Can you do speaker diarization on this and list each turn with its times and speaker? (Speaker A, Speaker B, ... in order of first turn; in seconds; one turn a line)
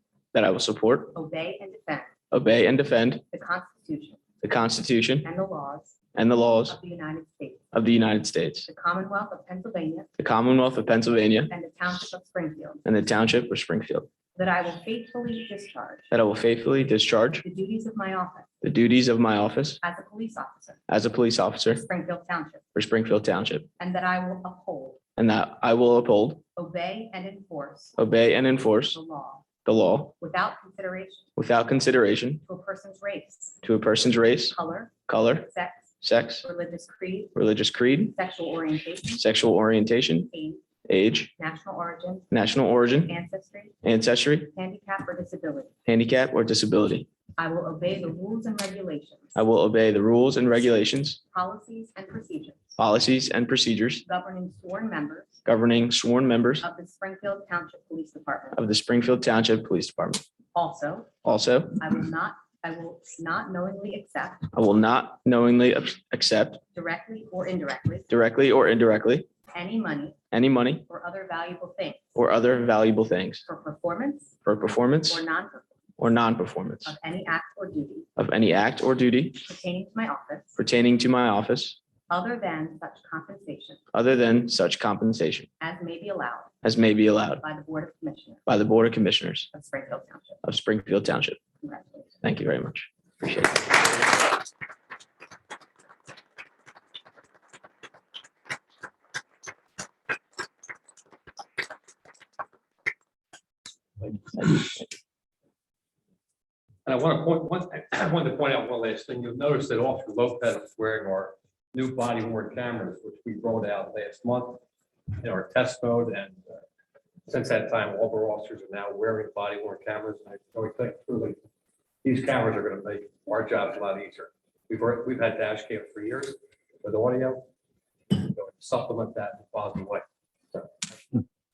Speaker A: 0.3-1.1
Speaker B: 1.1-2.1
Speaker A: 2.3-3.2
Speaker B: 3.3-4.2
Speaker A: 4.4-5.3
Speaker B: 5.2-6.0
Speaker A: 6.2-6.8
Speaker B: 6.7-7.7
Speaker A: 7.7-8.7
Speaker B: 8.7-10.1
Speaker A: 10.2-11.5
Speaker B: 11.5-12.8
Speaker A: 12.8-14.1
Speaker B: 14.3-16.1
Speaker A: 16.1-17.4
Speaker B: 17.4-18.5
Speaker A: 18.6-19.8
Speaker B: 19.8-20.8
Speaker A: 20.9-21.8
Speaker B: 21.8-22.6
Speaker A: 22.8-23.7
Speaker B: 23.8-25.0
Speaker A: 25.2-26.4
Speaker B: 26.6-28.0
Speaker A: 28.0-29.0
Speaker B: 28.9-29.5
Speaker A: 29.6-30.1
Speaker B: 30.2-31.3
Speaker A: 31.4-32.4
Speaker B: 32.4-33.6
Speaker A: 33.6-34.6
Speaker B: 34.5-35.9
Speaker A: 35.1-35.5
Speaker A: 36.0-36.5
Speaker B: 36.4-37.4
Speaker A: 37.4-38.1
Speaker B: 38.1-39.2
Speaker A: 39.2-40.3
Speaker B: 40.3-40.6
Speaker A: 40.9-41.3
Speaker B: 41.4-42.3
Speaker A: 42.3-43.2
Speaker B: 43.0-43.8
Speaker A: 43.8-44.5
Speaker B: 44.5-45.7
Speaker A: 45.9-47.1
Speaker B: 47.4-49.4
Speaker A: 49.4-51.2
Speaker B: 51.3-52.7
Speaker A: 52.8-54.0
Speaker B: 54.0-55.4
Speaker A: 55.5-56.7
Speaker B: 56.6-58.6
Speaker A: 58.5-60.2
Speaker B: 60.5-61.1
Speaker A: 61.2-61.8
Speaker B: 61.8-64.5
Speaker A: 64.5-66.6
Speaker B: 66.7-68.1
Speaker A: 68.1-69.3
Speaker B: 69.5-70.2
Speaker A: 70.3-70.9
Speaker B: 70.9-72.0
Speaker A: 72.2-73.4
Speaker B: 73.5-74.3
Speaker A: 74.5-75.2
Speaker B: 75.1-75.8
Speaker A: 76.0-77.0
Speaker B: 76.8-78.1
Speaker A: 78.2-79.4
Speaker B: 79.4-80.6
Speaker A: 80.6-81.8
Speaker B: 82.1-83.8
Speaker A: 83.9-85.5
Speaker B: 85.6-86.5
Speaker A: 86.6-87.4
Speaker B: 87.4-88.5
Speaker A: 88.5-89.5
Speaker B: 89.5-90.4
Speaker A: 90.4-91.4
Speaker B: 91.6-92.1
Speaker A: 92.2-93.8
Speaker C: 106.9-114.6
Speaker C: 115.2-116.6
Speaker C: 117.3-121.4
Speaker C: 122.0-127.5
Speaker C: 128.1-130.7